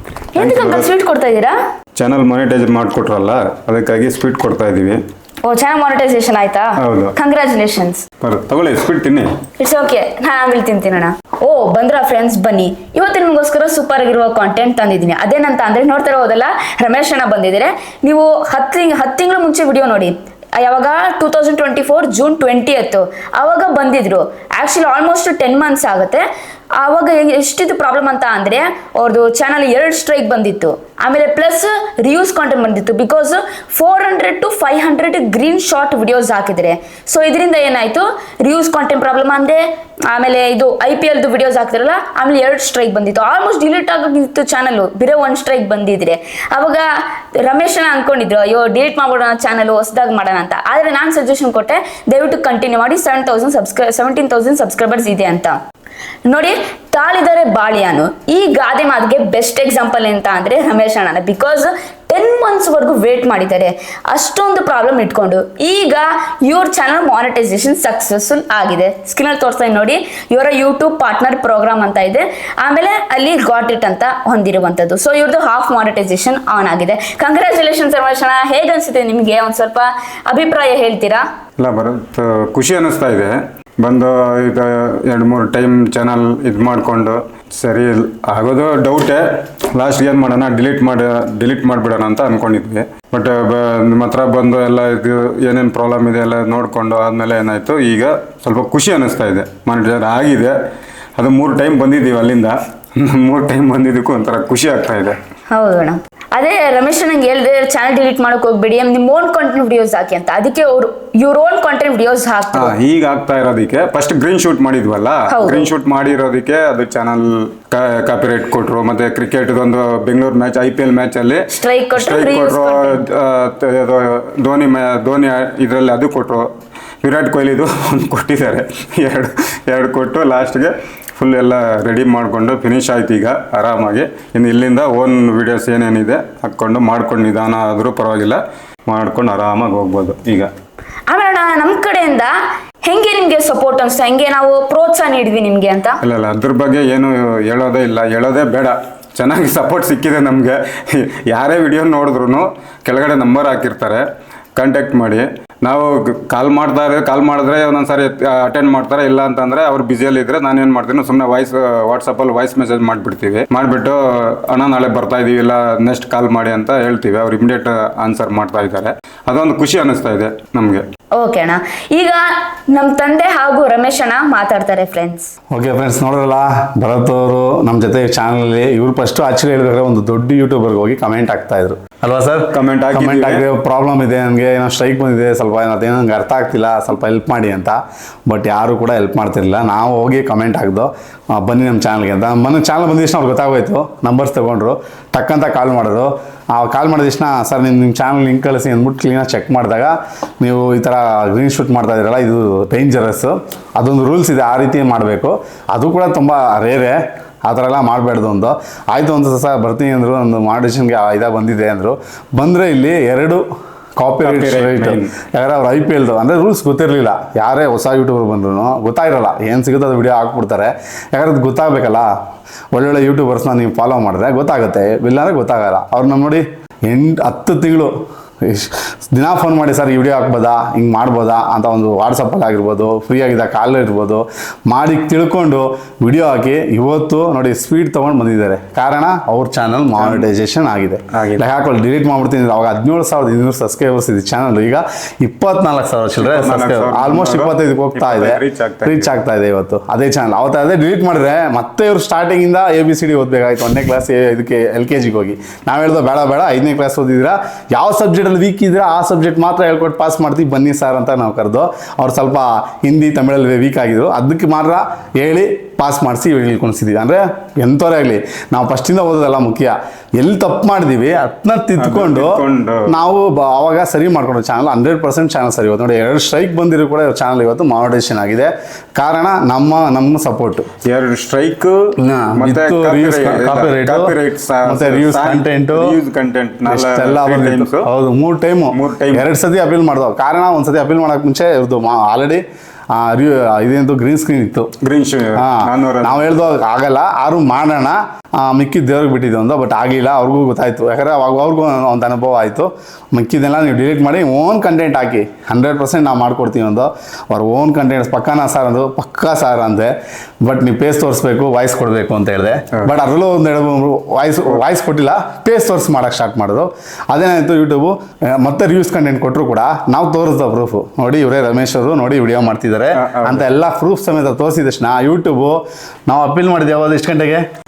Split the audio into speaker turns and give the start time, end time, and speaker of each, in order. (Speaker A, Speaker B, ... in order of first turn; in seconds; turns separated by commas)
Speaker A: 0.3-1.6, Speaker B: 0.4-0.9, Speaker B: 1.9-5.0, Speaker A: 5.4-8.0, Speaker B: 6.8-7.1, Speaker B: 8.2-9.3, Speaker A: 9.6-26.2, Speaker A: 26.8-55.6, Speaker A: 56.3-81.2, Speaker B: 81.6-100.5, Speaker B: 101.2-105.2, Speaker A: 105.5-112.7, Speaker B: 112.5-126.5, Speaker A: 115.3-115.7, Speaker A: 121.5-123.0, Speaker B: 127.0-140.5, Speaker A: 141.1-146.0, Speaker B: 146.0-170.8, Speaker A: 171.2-175.3, Speaker C: 175.5-213.4, Speaker B: 182.5-183.4, Speaker C: 214.0-222.1, Speaker B: 214.2-215.1, Speaker C: 222.7-280.7, Speaker B: 240.0-240.3, Speaker B: 241.1-241.4, Speaker B: 246.2-249.1, Speaker B: 271.8-272.9, Speaker B: 280.8-287.9, Speaker C: 282.0-286.0, Speaker C: 286.6-294.7, Speaker B: 288.7-289.3, Speaker B: 294.8-296.3, Speaker C: 295.4-309.9, Speaker C: 310.4-327.4, Speaker B: 322.9-323.4